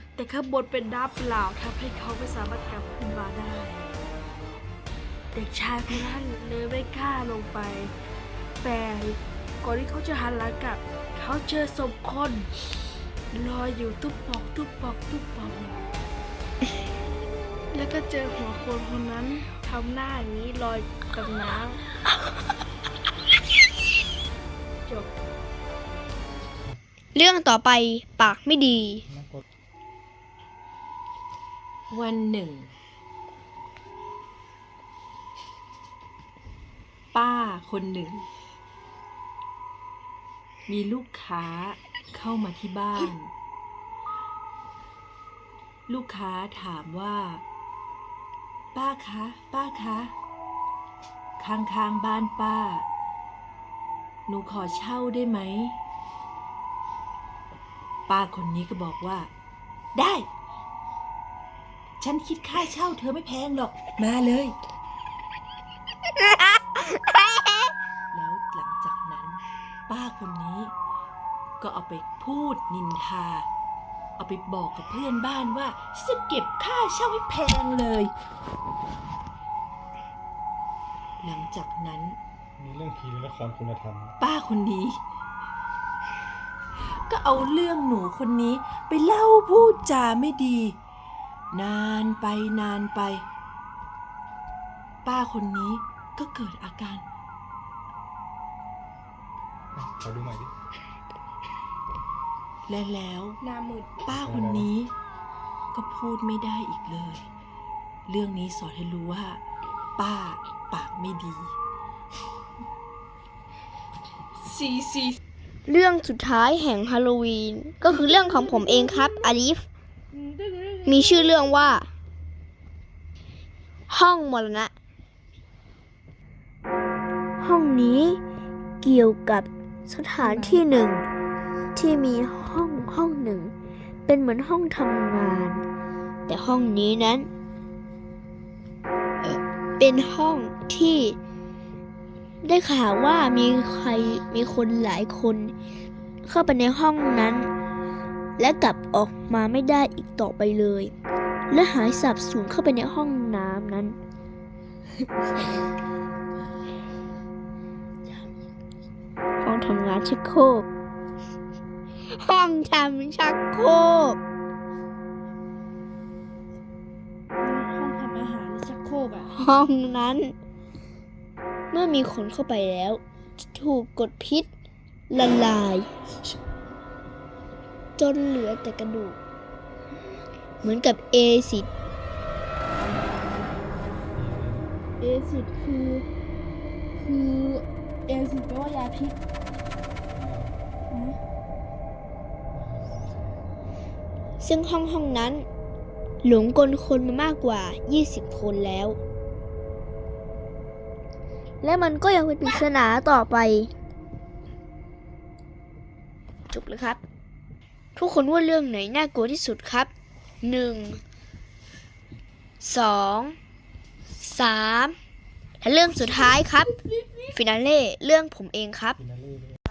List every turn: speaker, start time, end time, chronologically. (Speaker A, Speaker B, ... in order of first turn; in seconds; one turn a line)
Speaker A: 0.2-3.9
Speaker A: 5.3-7.9
Speaker A: 8.6-12.5
Speaker A: 13.3-15.8
Speaker A: 17.7-21.8
Speaker A: 24.9-25.1
Speaker B: 27.1-29.1
Speaker C: 29.1-29.4
Speaker D: 31.9-32.7
Speaker D: 37.1-38.3
Speaker D: 40.7-43.3
Speaker D: 45.9-47.4
Speaker D: 48.7-50.1
Speaker D: 51.4-52.9
Speaker D: 54.3-55.8
Speaker D: 58.1-59.3
Speaker D: 60.0-60.3
Speaker D: 62.0-64.6
Speaker B: 66.2-67.7
Speaker D: 68.1-70.7
Speaker D: 71.6-73.5
Speaker D: 74.2-78.1
Speaker D: 81.2-82.2
Speaker C: 82.6-84.2
Speaker D: 84.2-85.0
Speaker D: 87.1-90.8
Speaker D: 91.5-93.2
Speaker D: 95.0-97.1
Speaker C: 99.7-100.5
Speaker D: 102.7-103.4
Speaker A: 103.4-104.0
Speaker D: 104.0-104.9
Speaker C: 104.1-104.7
Speaker D: 105.7-107.3
Speaker D: 108.1-109.4
Speaker D: 110.0-111.5
Speaker A: 114.3-115.2
Speaker B: 115.7-119.6
Speaker A: 117.9-119.1
Speaker A: 120.1-121.5
Speaker B: 120.8-121.9
Speaker B: 123.9-124.7
Speaker B: 127.4-128.2
Speaker B: 128.8-131.1
Speaker A: 130.2-130.6
Speaker B: 131.8-133.5
Speaker B: 134.1-135.6
Speaker B: 136.3-137.3
Speaker B: 139.2-141.2
Speaker B: 142.4-145.5
Speaker B: 146.2-147.5
Speaker B: 148.4-150.9
Speaker B: 151.5-154.0
Speaker B: 159.4-160.7
Speaker B: 162.1-164.2
Speaker A: 167.4-169.3
Speaker B: 169.3-170.3
Speaker B: 171.7-173.0
Speaker B: 173.5-174.5
Speaker B: 175.1-175.9
Speaker B: 178.0-179.2
Speaker B: 180.6-181.7
Speaker C: 184.2-184.7
Speaker A: 185.0-186.1
Speaker A: 187.0-189.2
Speaker C: 190.2-190.6
Speaker A: 190.9-191.2
Speaker C: 192.5-193.3
Speaker B: 194.4-195.5
Speaker B: 196.2-199.0
Speaker B: 201.6-203.7
Speaker B: 206.5-207.0
Speaker B: 208.0-209.9
Speaker B: 210.4-211.0
Speaker B: 212.6-213.4
Speaker B: 214.2-214.9
Speaker B: 215.6-216.7
Speaker A: 216.0-216.3
Speaker B: 217.3-219.0
Speaker C: 219.0-219.6